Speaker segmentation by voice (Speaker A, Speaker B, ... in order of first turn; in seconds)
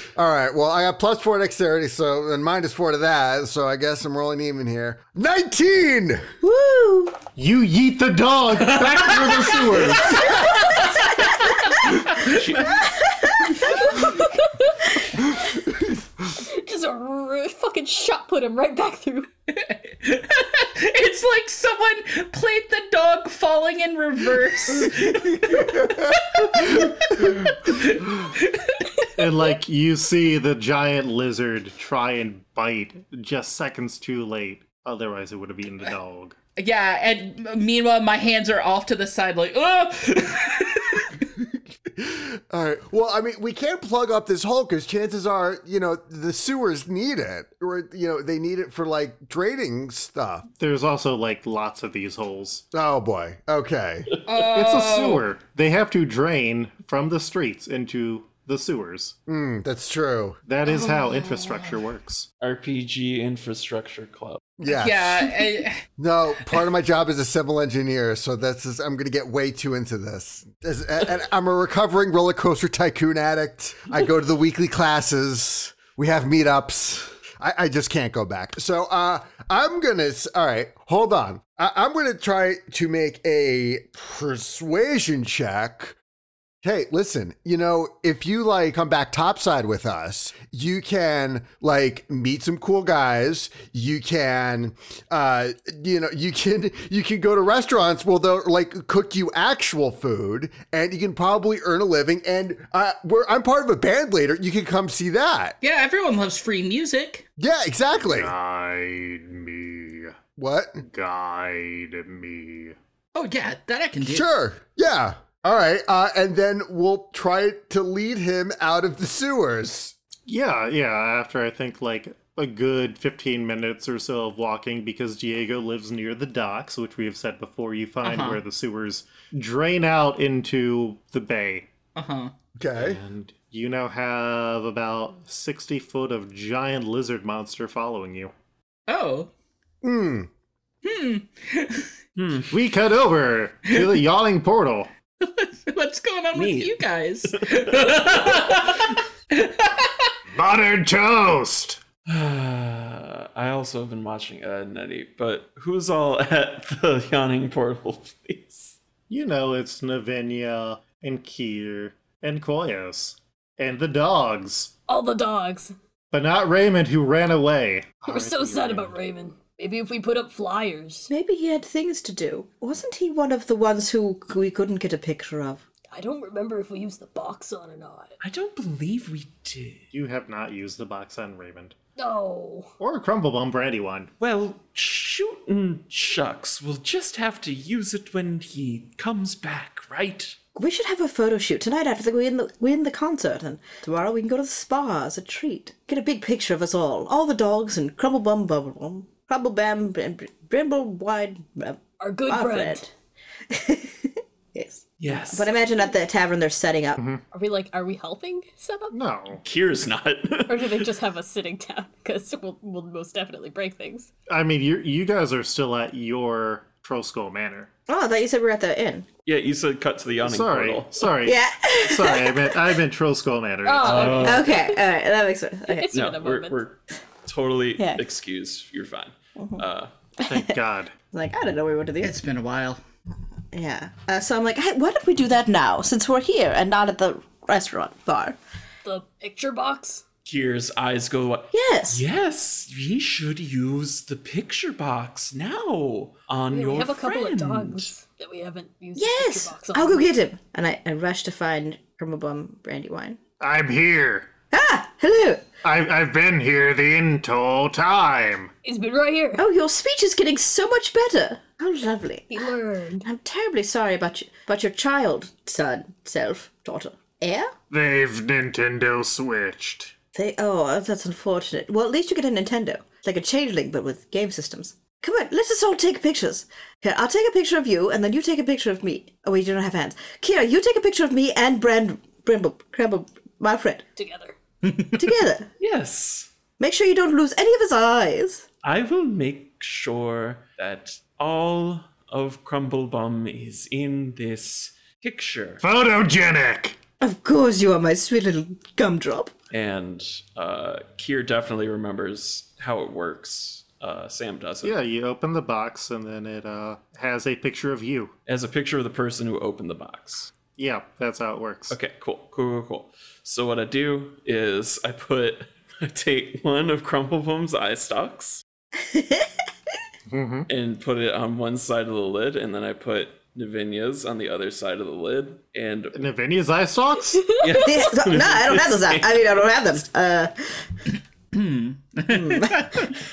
Speaker A: 0.1-6.3, 25.6-26.8, 41.9-50.4, 52.7-54.1, 59.3-60.4, 64.6-86.0, 86.6-105.6, 107.4-108.3, 110.4-110.8, 114.0-119.9, 132.6-133.0, 139.8-140.3
Speaker B: 6.4-7.2, 12.6-13.9, 171.1-175.6, 190.6-202.9, 203.5-207.0, 217.9-219.1, 221.2-222.6, 224.2-225.9, 227.8-228.0, 229.4-229.6, 230.3-230.5, 231.1-232.1, 233.5-238.4, 241.5-242.0, 248.9-253.2, 254.5-255.4, 259.4-262.5, 263.0-267.5, 270.1-283.9, 284.9-285.5, 286.6-288.4, 297.0-299.3, 318.8-319.3, 327.6-330.6, 332.1-332.9
Speaker C: 7.4-10.4, 29.1-36.4, 50.6-52.6, 54.4-59.1, 60.5-62.3, 108.0-110.1, 110.8-112.8, 120.3-131.7, 132.8-138.3, 142.5-144.9, 150.3-151.8, 159.1-164.7, 166.1-168.9, 179.9-181.8, 182.8-184.1, 207.0-207.2, 208.9-209.4, 214.3-217.7, 220.2-224.4, 230.2-230.9, 253.4-254.3, 255.6-258.5, 267.7-269.9, 295.6-296.8, 304.6-308.1, 310.6-311.8, 320.1-320.5, 325.9-327.3
Speaker D: 8.8-11.5, 12.1-12.5, 19.5-29.1, 36.6-41.2, 54.3-55.2, 60.6-61.8, 64.7-65.8, 105.6-107.3, 113.1-114.3, 128.0-128.4, 131.9-132.3, 138.9-139.3, 140.8-141.9, 145.2-150.1, 232.0-232.8, 331.3-332.9
Speaker E: 12.0-12.8, 62.4-64.5, 142.2-142.5, 146.3-148.4, 152.1-158.8, 178.2-179.9, 184.2-190.4, 205.0-205.5, 209.4-210.9, 219.2-221.1, 223.8-224.5, 225.9-229.9, 240.2-247.9, 285.6-286.3, 288.6-295.6, 299.5-304.8, 308.3-310.3, 311.7-318.4, 320.5-326.0, 327.4-329.4
Speaker F: 14.0-14.8, 16.4-19.3, 164.9-165.7, 168.1-171.1, 175.9-178.2, 182.0-182.7, 202.0-202.8, 207.3-208.9, 210.5-214.1, 223.6-224.8, 225.7-226.6, 238.8-240.1, 246.5-250.1, 258.6-259.4, 262.3-263.1, 284.0-284.4, 327.3-327.7